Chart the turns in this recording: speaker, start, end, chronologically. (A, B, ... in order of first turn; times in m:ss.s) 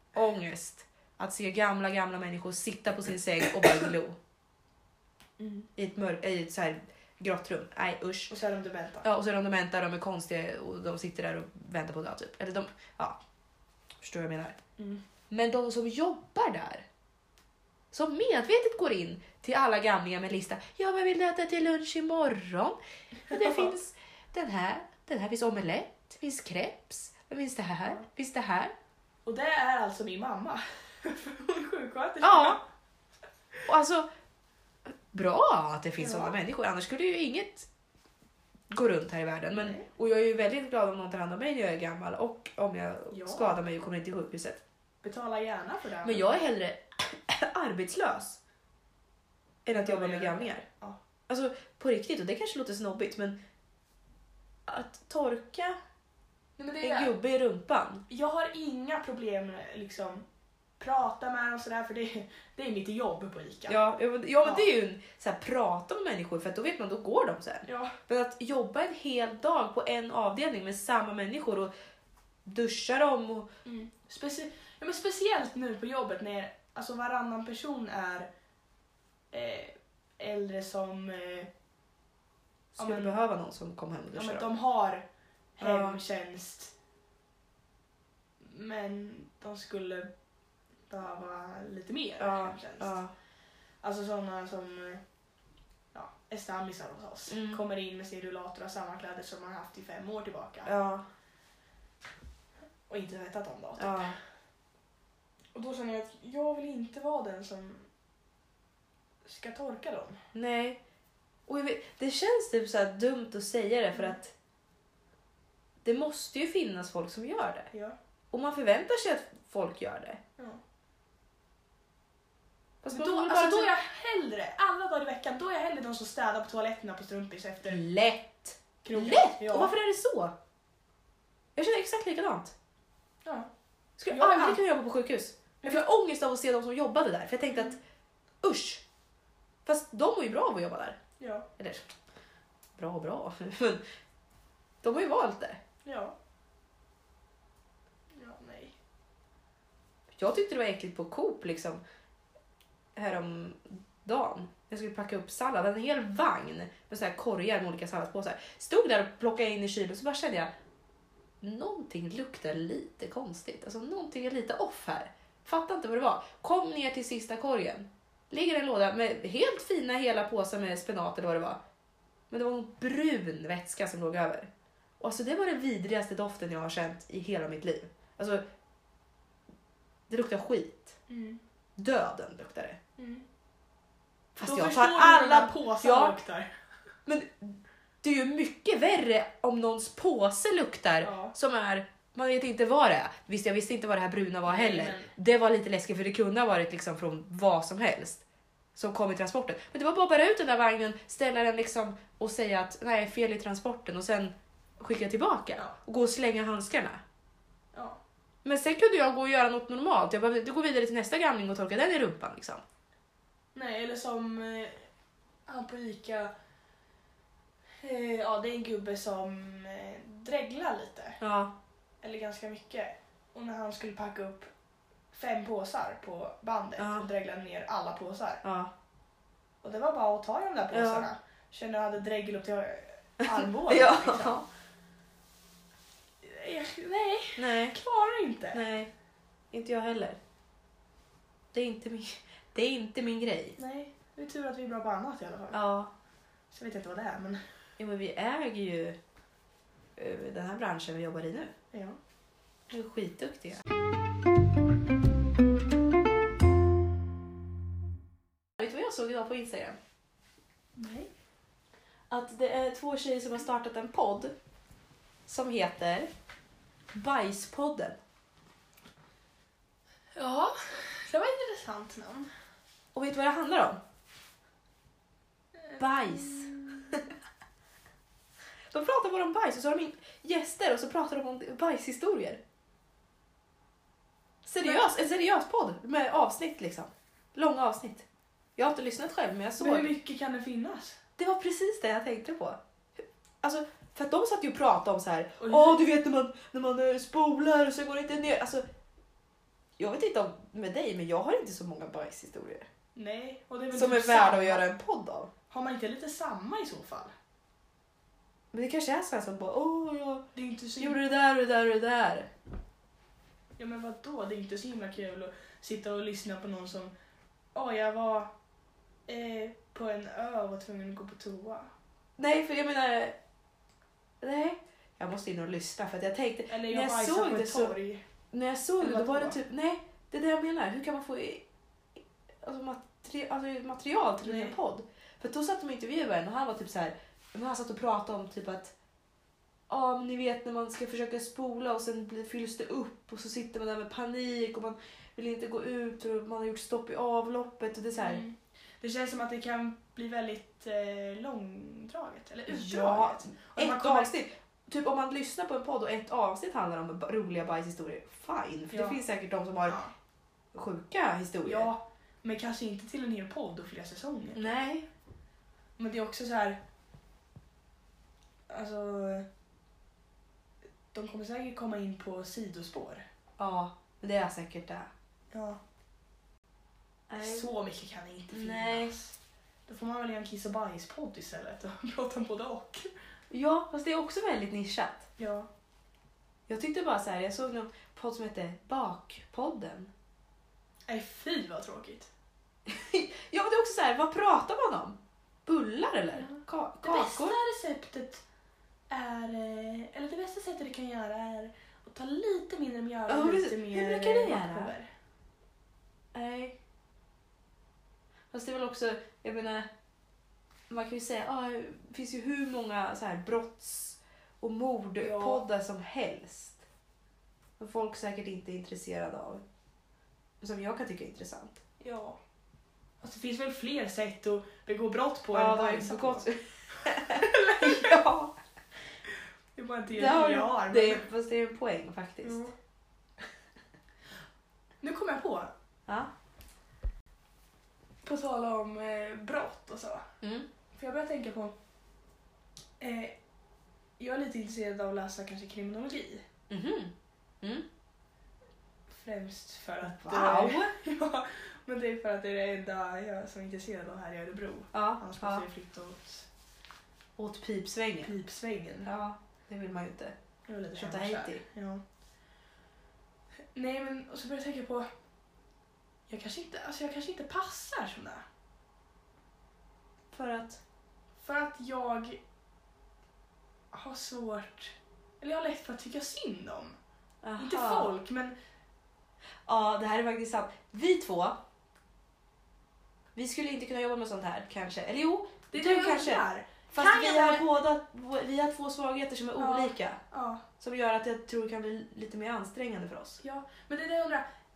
0:00.1-0:04.2 A
0:05.4-0:05.7 B
0:05.8-0:08.3 A
0:08.3-0:09.1 B
0:09.0-0:13.2 A
0:14.0-0:14.6 A
0:15.3-0:16.8 A
0:17.9-0:28.7 A
0:29.2-0:32.6 B
0:32.2-0:32.6 A
0:33.6-0:34.1 A
0:34.9-0:37.7 A
0:36.0-0:36.4 B
0:38.7-0:44.6 A
0:39.6-0:39.9 B
0:43.1-0:43.6 B
0:45.0-0:46.3 B
0:46.0-0:48.4 A
0:49.6-0:50.6 A
0:49.7-0:51.0 B
0:51.3-0:53.4 A
0:54.6-0:55.8 A
0:56.6-0:57.1 B
0:56.8-0:58.0 A
0:58.1-1:00.2 B
1:00.8-1:03.8 B
1:03.7-1:11.7 A
1:07.6-1:08.0 B
1:12.4-1:13.5 A
1:13.6-1:18.3 B
1:19.3-1:21.5 B
1:22.8-1:23.2 B
1:22.8-1:24.5 A
1:24.1-1:25.0 B
1:25.6-1:26.7 B
1:25.6-1:26.0 A
1:28.4-1:30.1 B
1:30.9-1:33.0 B
1:32.2-1:33.1 A
1:33.8-1:35.0 B
1:35.9-1:40.7 B
1:37.3-1:37.6 A
1:40.6-1:41.0 A
1:42.9-1:44.2 B
1:43.8-1:44.2 A
1:45.5-1:47.9 B
1:49.2-1:50.2 B
1:50.3-1:50.8 A
1:51.5-1:54.3 A
1:55.8-1:57.7 A
1:57.7-1:58.0 B
1:58.3-2:00.2 A
2:02.8-2:03.7 A
2:02.9-2:07.8 B
2:07.7-2:10.3 A
2:08.8-2:09.7 B
2:11.6-2:12.5 A
2:13.2-2:13.5 B
2:14.0-2:17.8 A
2:14.1-2:14.6 B
2:18.4-2:18.8 A
2:19.6-2:21.0 A
2:21.2-2:21.5 B
2:21.6-2:21.8 A
2:22.8-2:23.8 A
2:24.8-2:25.6 A
2:25.8-2:26.2 B
2:28.1-2:28.7 B
2:30.2-2:31.8 A
2:33.0-2:40.5 A
2:41.4-2:51.6 A
2:52.3-2:58.4 A
3:00.1-3:01.0 A
3:01.1-3:01.4 B
3:01.8-3:02.8 A
3:03.0-3:03.2 B
3:04.3-3:06.2 A
3:04.4-3:06.5 B
3:07.0-3:18.2 A
3:11.0-3:11.3 B
3:14.4-3:15.1 B
3:18.8-3:27.0 A
3:27.7-3:28.0 B
3:28.4-3:32.6 A
3:33.5-3:34.8 B
3:35.5-3:36.3 B
3:37.8-3:41.2 B
3:41.2-3:41.5 A
3:42.0-3:44.5 B
3:45.1-3:48.4 B
3:46.8-3:47.1 A
3:48.4-3:48.7 A
3:49.6-3:54.4 B
3:50.7-3:51.1 A
3:53.2-3:54.5 A
3:56.2-3:58.6 B
3:57.4-3:57.8 A
3:58.5-3:58.9 A
3:59.5-4:00.2 A
4:01.5-4:03.6 A
4:03.6-4:05.6 B
4:05.5-4:05.9 A
4:06.5-4:07.4 B
4:07.8-4:09.0 A
4:10.0-4:11.5 A
4:11.7-4:12.0 B
4:12.7-4:13.6 A
4:18.6-4:19.8 A
4:20.8-4:21.1 B
4:22.1-4:24.3 A
4:25.3-4:26.1 A
4:26.9-4:28.0 A
4:30.1-4:32.3 B
4:32.9-4:33.8 A
4:35.6-4:36.9 B
4:35.8-4:37.0 A
4:38.7-4:42.4 A
4:44.4-4:49.9 A
4:44.6-4:44.9 B
4:49.6-4:51.0 B
4:51.2-4:58.6 A
4:55.4-4:55.8 B
4:59.8-5:02.7 A
5:02.9-5:04.7 B
5:03.7-5:05.3 A
5:05.5-5:07.1 B
5:08.5-5:12.3 A
5:10.3-5:11.0 B
5:13.6-5:16.9 B
5:17.5-5:18.3 B
5:19.1-5:21.7 B
5:22.2-5:23.2 A
5:24.2-5:27.7 A
5:26.5-5:28.0 B
5:28.3-5:31.4 A
5:28.8-5:29.4 B
5:32.4-5:38.7 A
5:34.2-5:34.5 B
5:39.7-5:48.2 A
5:48.0-5:54.1 B
5:52.5-5:59.8 A
5:58.7-5:59.0 B
5:59.6-5:59.9 B
6:00.5-6:01.7 A
6:01.4-6:04.6 B
6:04.3-6:04.9 A
6:05.8-6:06.6 B
6:08.5-6:09.3 B
6:10.9-6:13.0 B
6:13.4-6:14.9 A
6:15.3-6:15.6 B
6:17.1-6:17.5 A
6:17.2-6:19.1 B
6:18.3-6:19.0 A
6:19.7-6:22.9 B
6:23.3-6:25.1 A
6:25.2-6:25.5 B
6:26.5-6:29.9 A
6:30.9-6:32.1 B
6:32.6-6:37.4 A
6:36.1-6:38.2 B
6:38.9-6:44.9 B
6:43.1-6:44.7 A
6:46.1-6:46.6 A
6:48.3-6:49.7 A
6:50.7-6:56.6 A
6:55.0-6:55.4 B
6:57.6-6:59.4 A
7:00.4-7:01.6 A
7:01.8-7:02.2 B
7:03.0-7:06.3 B
7:05.3-7:08.4 A
7:07.1-7:08.0 B
7:09.5-7:11.0 B
7:09.9-7:12.4 A
7:12.2-7:12.5 B
7:14.8-7:15.5 B
7:15.9-7:16.1 A
7:18.0-7:20.1 B
7:20.2-7:20.5 A
7:20.7-7:21.5 B
7:22.8-7:23.2 B
7:24.0-7:26.2 B
7:26.5-7:27.7 A
7:28.9-7:36.2 B
7:29.8-7:30.7 A
7:34.7-7:35.4 A
7:37.2-7:38.1 A
7:38.0-7:38.9 B
7:38.8-7:40.1 A
7:40.5-7:41.8 B
7:40.7-7:41.4 A
7:43.5-7:44.9 B
7:46.1-7:48.2 B
7:50.1-7:50.6 A
7:51.2-7:52.2 B
7:53.7-7:56.8 B
7:57.2-7:58.0 A
7:57.4-7:58.3 B
7:59.4-8:01.4 A
8:03.1-8:10.0 A
8:05.5-8:07.5 B
8:09.4-8:10.4 B
8:10.6-8:13.2 A
8:13.2-8:14.2 B